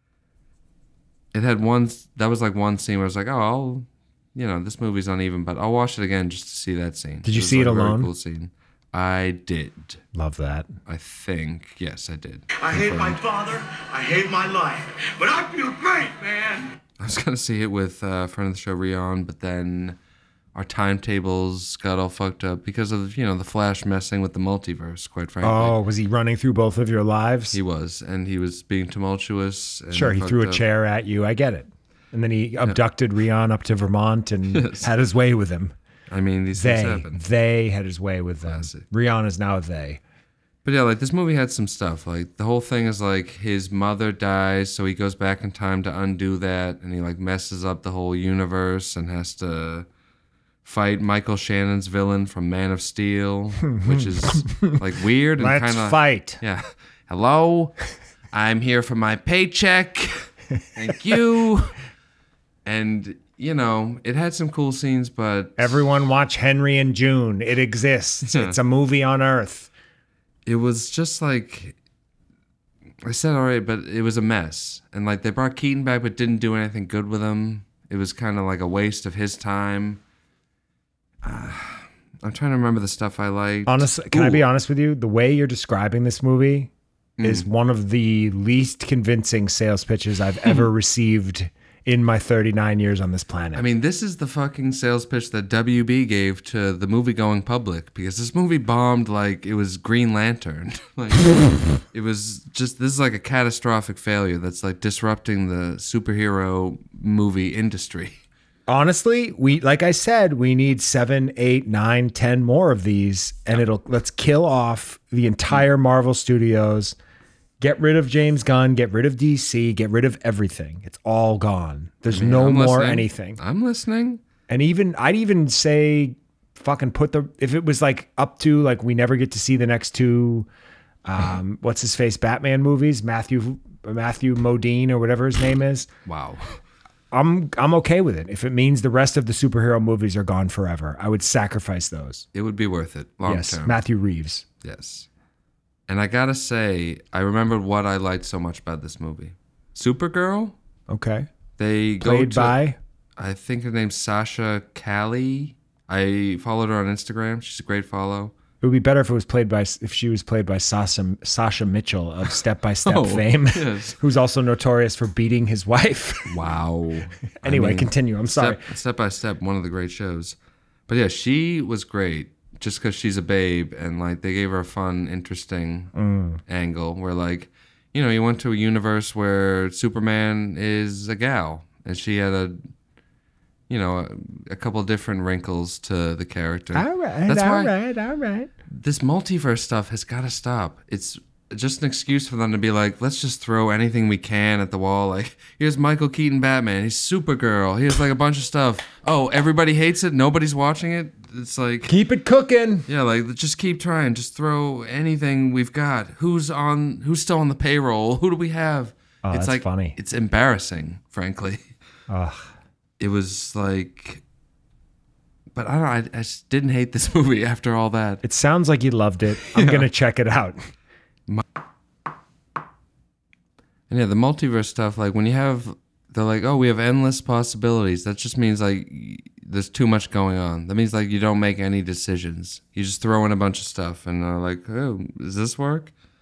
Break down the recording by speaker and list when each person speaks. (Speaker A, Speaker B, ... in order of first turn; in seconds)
Speaker A: 1.3-10.0, 10.8-13.2, 17.0-20.0, 20.5-25.8, 27.5-30.6, 34.5-34.9, 36.1-37.2, 38.4-38.8, 40.6-49.9, 50.6-57.8, 58.3-61.7, 62.6-65.8, 68.2-68.6, 70.5-71.8, 73.0-80.0, 81.2-84.5, 87.2-87.5, 93.5-108.2, 122.1-124.2, 136.1-136.6, 142.3-143.8, 144.6-145.1, 145.9-150.6, 151.6-152.6, 153.2-158.3, 162.8-164.0, 166.3-170.3, 170.9-175.9, 176.5-182.6, 183.7-187.7, 188.7-201.9, 202.8-211.7, 213.0-214.2, 215.5-218.2, 219.5-219.9, 223.9-235.9
Speaker B: 7.2-8.1, 10.1-10.7, 25.4-27.6, 29.9-35.7, 36.5-40.0, 53.7-54.8, 55.4-56.4, 65.6-69.7, 83.7-86.7, 87.2-93.6, 108.7-116.9, 117.6-123.4, 124.5-130.5, 131.0-135.9, 137.1-142.2, 143.2-144.4, 150.9-151.3, 152.0-152.8, 158.6-166.3, 167.4-168.6, 175.9-176.4, 186.7-188.5, 201.9-202.8, 209.2-209.9, 212.1-212.5, 218.2-220.6
Speaker C: 13.2-16.6